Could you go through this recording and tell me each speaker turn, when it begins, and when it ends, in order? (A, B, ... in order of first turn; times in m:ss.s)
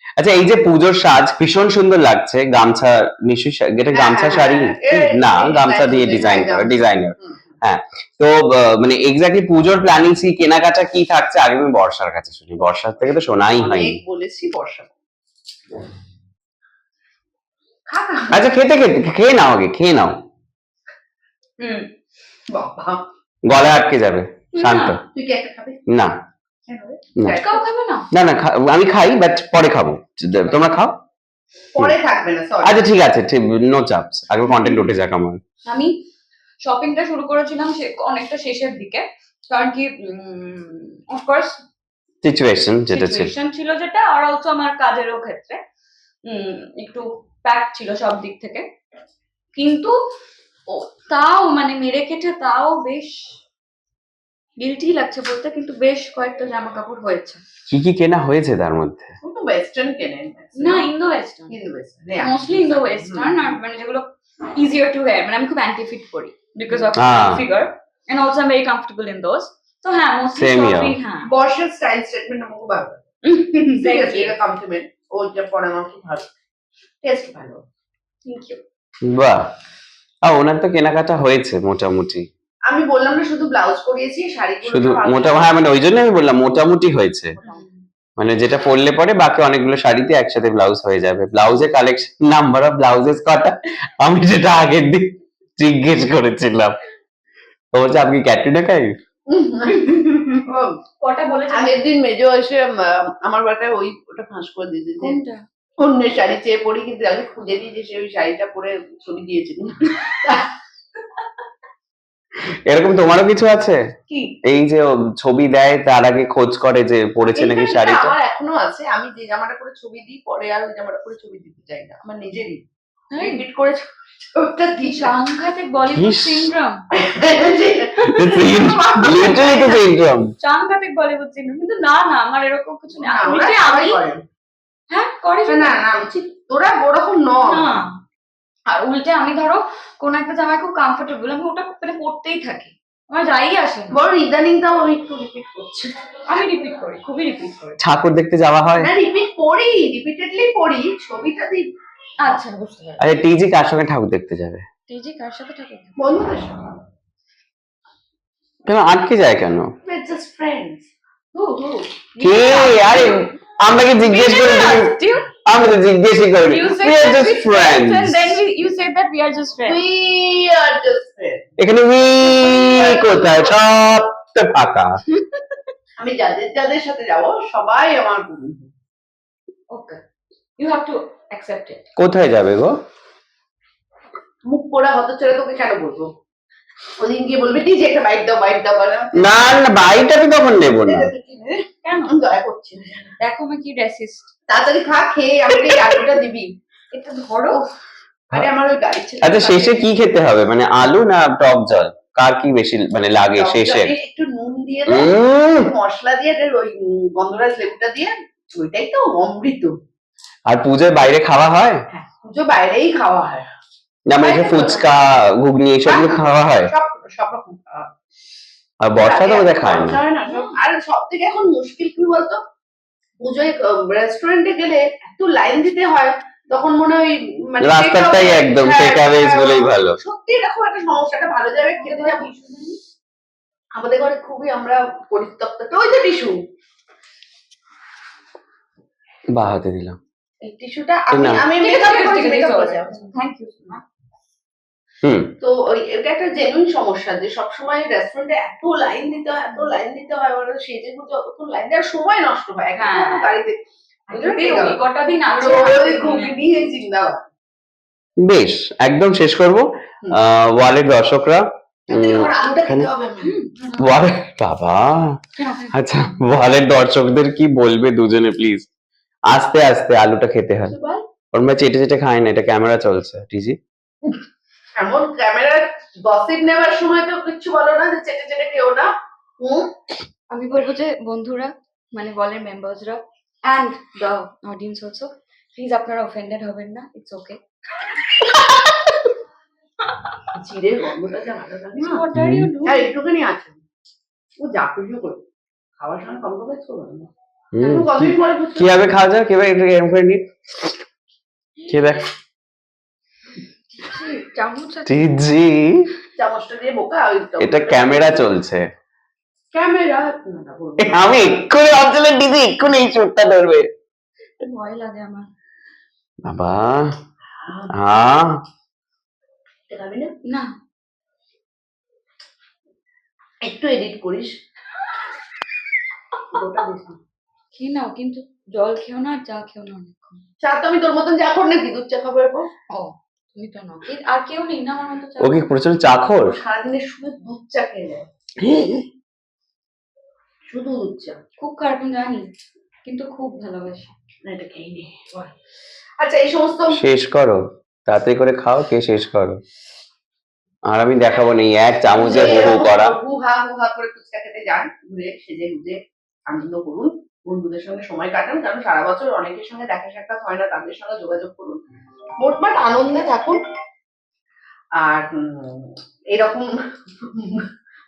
0:00.2-0:14.0 A
0:03.9-0:07.4 B
0:13.5-0:14.9 B
0:17.9-0:18.4 B
0:18.3-0:20.2 A
0:21.6-0:21.9 C
0:22.5-0:23.0 B
0:23.5-0:25.0 A
0:24.5-0:25.0 C
0:25.1-0:25.8 B
0:25.9-0:26.2 A
0:26.7-0:27.6 B
0:27.3-0:28.1 C
0:28.1-0:31.0 A
0:31.7-0:32.8 B
0:32.6-0:35.4 A
0:35.6-0:36.0 C
0:36.6-0:41.6 C
0:42.2-0:43.3 A
0:42.9-0:45.6 C
0:46.2-0:48.7 C
0:49.5-0:49.9 C
0:50.7-0:53.3 C
0:54.6-0:57.4 C
0:57.7-0:59.1 A
0:59.2-1:00.9 B
1:00.6-1:01.6 C
1:01.5-1:03.4 B
1:02.2-1:11.3 C
1:07.0-1:07.4 A
1:10.3-1:11.0 A
1:11.3-1:13.0 B
1:13.2-1:14.3 C
1:13.5-1:16.2 B
1:17.0-1:17.6 B
1:18.2-1:18.6 C
1:19.0-1:19.4 A
1:20.2-1:22.2 A
1:22.7-1:25.5 B
1:24.6-1:27.4 A
1:27.4-1:27.6 B
1:27.4-1:27.8 C
1:28.2-1:36.7 A
1:37.7-1:39.0 A
1:39.3-1:40.8 B
1:39.7-1:40.3 C
1:41.0-1:41.8 C
1:41.5-1:45.2 B
1:45.0-1:45.4 C
1:45.8-1:50.5 B
1:52.7-1:53.8 A
1:54.1-1:54.4 C
1:54.4-1:58.1 A
1:57.3-2:02.6 B
2:03.1-2:03.4 C
2:03.2-2:05.1 B
2:04.8-2:06.8 C
2:05.9-2:06.5 A
2:06.9-2:09.9 B
2:08.0-2:10.3 A
2:08.9-2:09.5 C
2:10.4-2:14.0 C
2:12.9-2:14.2 B
2:14.9-2:15.7 C
2:15.5-2:17.7 B
2:17.4-2:17.9 C
2:18.7-2:24.0 C
2:23.9-2:25.9 B
2:26.3-2:27.8 C
2:27.8-2:28.9 A
2:28.8-2:31.7 B
2:32.2-2:33.0 C
2:33.0-2:34.6 A
2:34.9-2:35.9 C
2:36.0-2:36.6 B
2:38.6-2:39.7 A
2:39.8-2:40.9 B
2:41.3-2:41.9 C
2:42.2-2:43.2 B
2:42.2-2:44.9 A
2:42.5-2:42.7 C
2:44.0-2:45.3 C
2:45.4-2:48.4 A
2:46.5-2:49.8 C
2:49.6-2:51.4 B
2:51.6-2:55.0 A
2:52.5-2:53.6 B
2:56.0-2:58.7 B
2:59.7-3:00.0 C
3:00.6-3:01.8 C
3:02.0-3:02.7 A
3:04.5-3:06.1 B
3:07.0-3:09.6 B
3:09.1-3:11.1 A
3:10.7-3:13.1 B
3:11.8-3:12.2 C
3:13.2-3:14.3 C
3:14.5-3:16.5 B
3:15.6-3:16.0 C
3:16.9-3:17.6 C
3:18.3-3:19.9 B
3:19.2-3:23.9 A
3:23.4-3:29.7 B
3:24.9-3:25.7 A
3:30.5-3:31.8 A
3:31.9-3:33.4 B
3:34.1-3:36.7 A
3:34.2-3:35.2 B
3:35.8-3:37.9 B
3:38.8-3:40.0 A
3:39.0-3:42.4 B
3:40.2-3:40.6 C
3:43.2-3:52.3 B
3:47.6-3:50.0 A
3:51.7-3:52.8 C
3:53.8-3:56.3 B
3:59.3-4:00.0 A
4:00.4-4:03.0 B
4:01.1-4:01.4 A
4:01.6-4:03.8 C
4:05.0-4:05.3 A
4:05.4-4:17.2 B
4:12.8-4:13.3 C
4:14.1-4:16.3 C
4:18.2-4:22.9 A
4:21.9-4:23.7 B
4:23.2-4:23.5 C
4:23.8-4:25.2 A
4:25.4-4:25.8 C
4:25.7-4:28.7 A
4:29.3-4:30.8 A
4:30.7-4:31.0 B
4:31.3-4:33.6 A
4:34.8-4:38.9 B
4:39.4-4:39.7 B
4:40.3-4:47.4 C
4:50.3-4:52.0 B
4:51.8-4:52.9 C
4:52.1-4:52.5 A
4:52.6-4:53.6 B
4:54.4-4:55.2 B
4:55.8-4:57.1 B
4:57.5-5:00.7 A
4:57.7-4:58.9 B
5:01.7-5:02.1 A
5:03.7-5:05.1 C
5:04.8-5:05.9 A
5:06.2-5:08.2 B
5:07.4-5:08.6 A
5:09.5-5:11.5 B
5:10.8-5:13.7 A
5:14.4-5:15.3 C
5:16.2-5:16.9 A
5:17.4-5:17.7 B
5:17.7-5:18.4 A
5:19.7-5:20.1 B
5:20.3-5:20.5 C
5:23.4-5:24.3 B
5:26.3-5:27.0 B
5:27.5-5:30.2 C
5:30.4-5:32.4 B
5:32.7-5:35.5 C
5:35.2-5:36.4 A
5:36.3-5:38.0 B
5:38.4-5:38.8 A
5:40.5-5:41.2 B
5:41.4-5:42.3 C
5:42.8-5:43.9 C
5:44.2-5:45.3 B
5:46.0-5:46.8 B
5:46.7-5:49.4 A
5:50.7-5:52.9 A
5:52.0-6:01.6 B
5:52.0-5:52.4 C
6:02.2-6:03.4 B
6:04.8-6:06.5 B
6:07.0-6:07.4 B